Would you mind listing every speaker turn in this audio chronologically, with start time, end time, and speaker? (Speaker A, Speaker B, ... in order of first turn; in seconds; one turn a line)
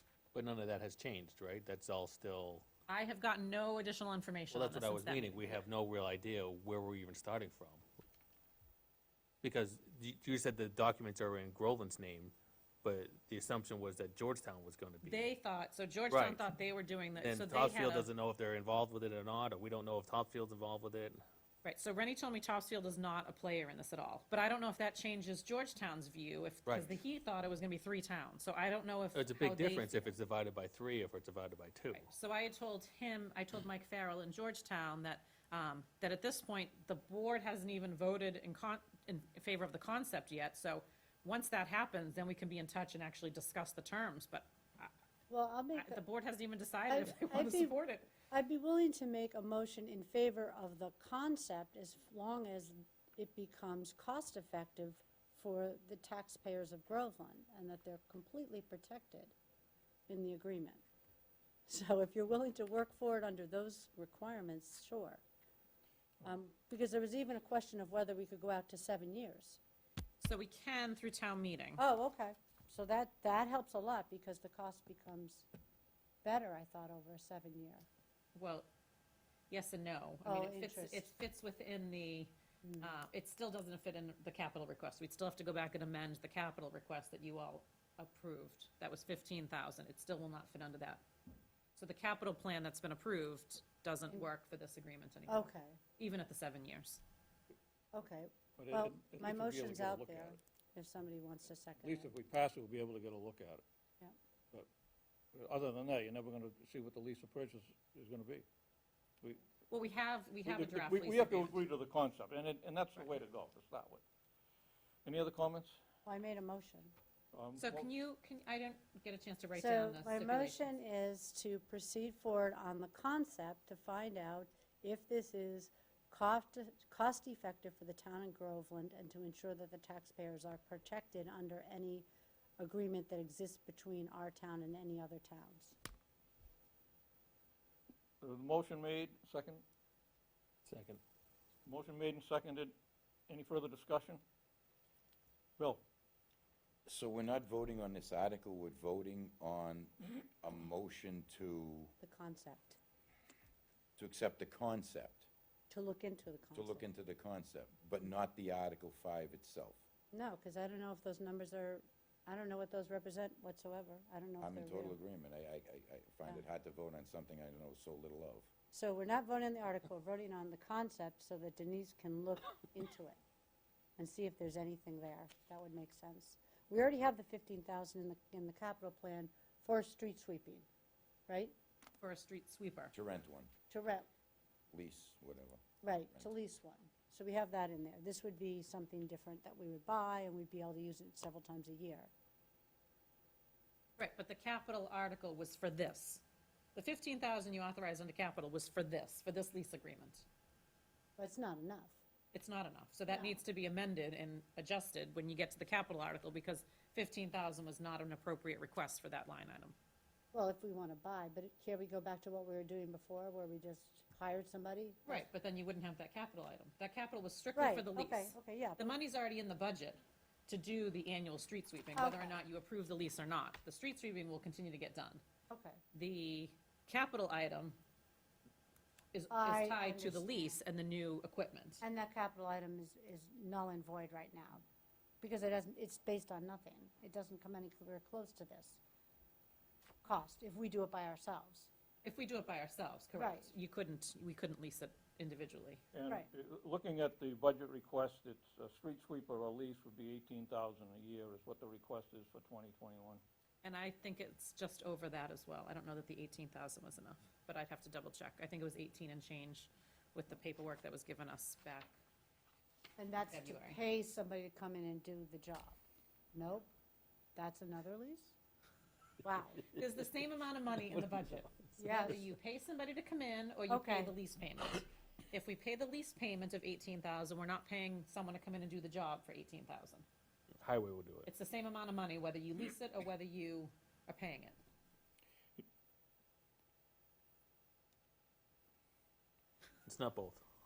Speaker A: 0.3-2.6
Speaker B: 2.9-5.5
Speaker A: 4.5-7.8
Speaker A: 9.4-15.3
Speaker B: 15.0-18.1
Speaker A: 16.1-16.4
Speaker A: 17.2-21.2
Speaker B: 21.6-30.0
Speaker A: 26.7-26.9
Speaker A: 29.1-32.0
Speaker B: 31.9-44.9
Speaker C: 45.3-46.0
Speaker B: 45.8-48.1
Speaker C: 46.9-47.8
Speaker C: 48.3-59.3
Speaker C: 60.1-60.8
Speaker C: 61.7-65.2
Speaker C: 66.2-69.6
Speaker B: 70.2-71.8
Speaker C: 71.8-75.5
Speaker C: 76.2-77.8
Speaker B: 78.3-78.7
Speaker B: 79.5-91.0
Speaker C: 80.2-81.1
Speaker C: 82.6-82.9
Speaker B: 91.8-97.0
Speaker C: 95.3-95.8
Speaker C: 97.9-102.1
Speaker D: 98.6-100.4
Speaker D: 101.8-103.6
Speaker D: 105.3-108.4
Speaker B: 109.7-111.5
Speaker D: 110.4-114.0
Speaker D: 115.0-115.8
Speaker C: 116.0-116.9
Speaker D: 117.3-117.9
Speaker B: 117.6-120.7
Speaker C: 119.5-132.1
Speaker C: 132.6-135.8
Speaker D: 138.2-139.6
Speaker A: 140.7-141.0
Speaker D: 141.7-142.7
Speaker D: 143.3-144.2
Speaker D: 145.6-145.8
Speaker E: 146.9-151.9
Speaker C: 152.0-152.8
Speaker E: 154.0-155.3
Speaker C: 155.7-156.9
Speaker E: 156.5-159.8
Speaker C: 160.1-165.0
Speaker E: 164.4-168.5
Speaker C: 168.7-173.2
Speaker C: 174.0-180.7
Speaker C: 181.3-181.5
Speaker B: 182.0-182.9
Speaker E: 182.9-183.5
Speaker C: 183.7-184.1
Speaker E: 184.7-186.2
Speaker C: 185.8-192.1
Speaker B: 194.0-196.2
Speaker B: 196.7-200.2
Speaker C: 201.2-202.0
Speaker B: 202.3-209.7
Speaker C: 210.3-215.3
Speaker B: 215.1-225.2
Speaker C: 217.6-218.9
Speaker C: 221.9-222.4
Speaker C: 225.5-225.8
Speaker B: 225.9-227.8
Speaker B: 229.1-231.8
Speaker C: 229.3-230.5
Speaker C: 231.8-234.6
Speaker C: 235.2-238.8
Speaker C: 240.0-241.7
Speaker B: 242.0-245.8
Speaker C: 243.2-243.5
Speaker D: 245.9-253.2
Speaker B: 253.6-261.9
Speaker C: 263.0-265.8
Speaker B: 263.3-263.8
Speaker C: 266.3-266.7
Speaker C: 267.3-268.3
Speaker C: 269.2-269.6
Speaker B: 269.7-280.1
Speaker C: 271.8-272.2
Speaker C: 273.7-274.1
Speaker A: 280.6-281.3
Speaker B: 281.2-284.6
Speaker A: 289.9-290.4